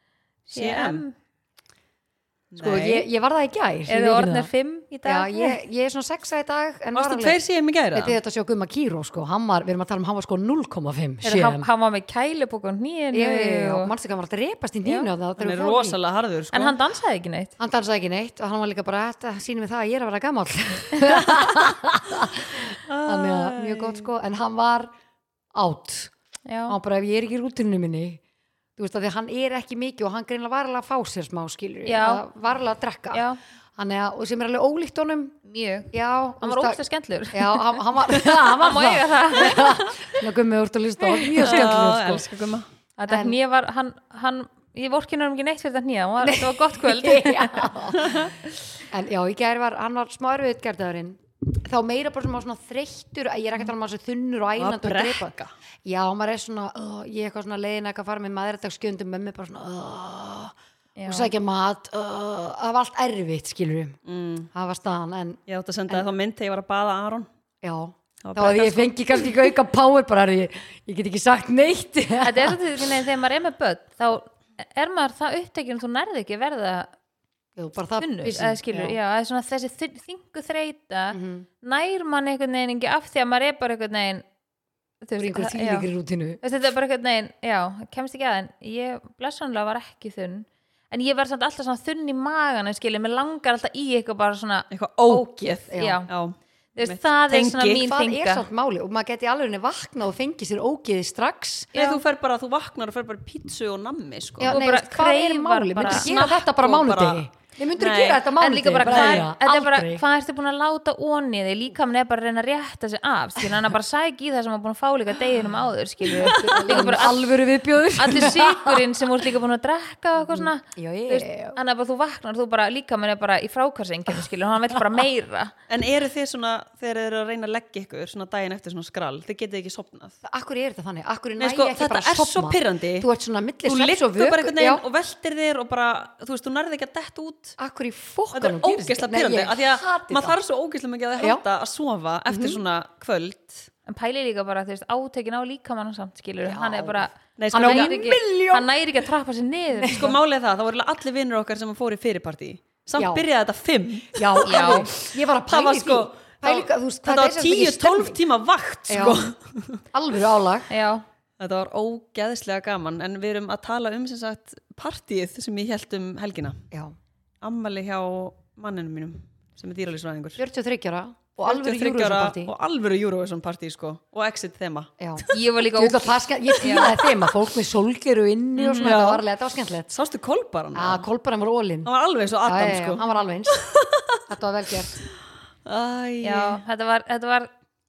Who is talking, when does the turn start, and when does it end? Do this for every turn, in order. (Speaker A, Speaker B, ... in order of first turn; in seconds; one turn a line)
Speaker A: 0.5-1.1
Speaker B: 0.5-1.0
Speaker B: 2.5-3.1
Speaker C: 2.5-4.5
Speaker A: 3.9-5.6
Speaker C: 5.0-7.4
Speaker B: 6.9-8.2
Speaker C: 7.9-11.7
Speaker A: 11.2-13.9
Speaker C: 13.1-16.0
Speaker A: 14.8-15.1
Speaker B: 15.4-16.8
Speaker A: 16.5-17.5
Speaker C: 17.6-24.9
Speaker B: 21.1-21.5
Speaker B: 22.6-24.1
Speaker C: 25.5-26.1
Speaker A: 26.5-26.8
Speaker C: 26.7-28.2
Speaker C: 28.8-35.4
Speaker A: 31.9-32.2
Speaker A: 33.1-33.4
Speaker A: 35.5-39.9
Speaker C: 35.9-36.8
Speaker C: 37.3-42.3
Speaker B: 41.3-42.7
Speaker A: 43.0-47.7
Speaker C: 43.1-43.4
Speaker C: 46.2-55.3
Speaker B: 48.0-48.3
Speaker B: 54.6-55.5
Speaker C: 55.8-60.5
Speaker A: 61.0-61.3
Speaker C: 61.0-64.0
Speaker B: 64.0-64.5
Speaker C: 64.5-66.0
Speaker B: 65.5-67.3
Speaker C: 67.6-72.6
Speaker B: 68.2-69.5
Speaker A: 72.2-76.9
Speaker C: 77.5-79.0
Speaker A: 78.0-84.2
Speaker C: 81.1-81.5
Speaker A: 85.0-85.9
Speaker C: 85.2-86.4
Speaker A: 86.4-96.1
Speaker B: 94.7-97.8
Speaker C: 95.7-96.0
Speaker A: 96.8-98.4
Speaker C: 97.7-101.7
Speaker A: 101.7-102.0
Speaker B: 101.7-104.6
Speaker C: 104.4-110.0
Speaker A: 104.5-106.0
Speaker B: 105.8-108.2
Speaker A: 108.4-117.3
Speaker B: 108.8-109.3
Speaker C: 116.2-118.8
Speaker B: 116.2-117.0
Speaker A: 117.9-125.5
Speaker C: 120.2-121.6
Speaker B: 125.7-130.2
Speaker C: 130.2-134.8
Speaker B: 131.4-133.1
Speaker B: 133.7-137.6
Speaker C: 137.6-140.4
Speaker B: 138.3-143.7
Speaker C: 141.2-141.4
Speaker C: 142.3-142.6
Speaker A: 143.8-150.1
Speaker C: 146.4-148.7
Speaker B: 147.4-148.2
Speaker C: 149.8-150.2
Speaker B: 149.8-159.8
Speaker C: 153.0-153.2
Speaker C: 154.1-158.2
Speaker A: 154.4-154.9
Speaker C: 158.9-159.3
Speaker C: 159.9-160.7
Speaker A: 160.7-161.0
Speaker B: 161.4-166.7
Speaker C: 166.7-166.9
Speaker B: 167.4-170.4
Speaker C: 170.4-172.5
Speaker B: 171.4-175.4
Speaker C: 175.0-179.9
Speaker A: 175.3-176.9
Speaker B: 176.8-177.1
Speaker A: 178.6-178.9
Speaker B: 178.8-179.2
Speaker B: 179.9-181.1
Speaker C: 180.7-181.9
Speaker B: 181.8-184.2
Speaker C: 182.4-183.6
Speaker C: 184.3-185.0
Speaker B: 185.7-186.6
Speaker A: 186.2-187.5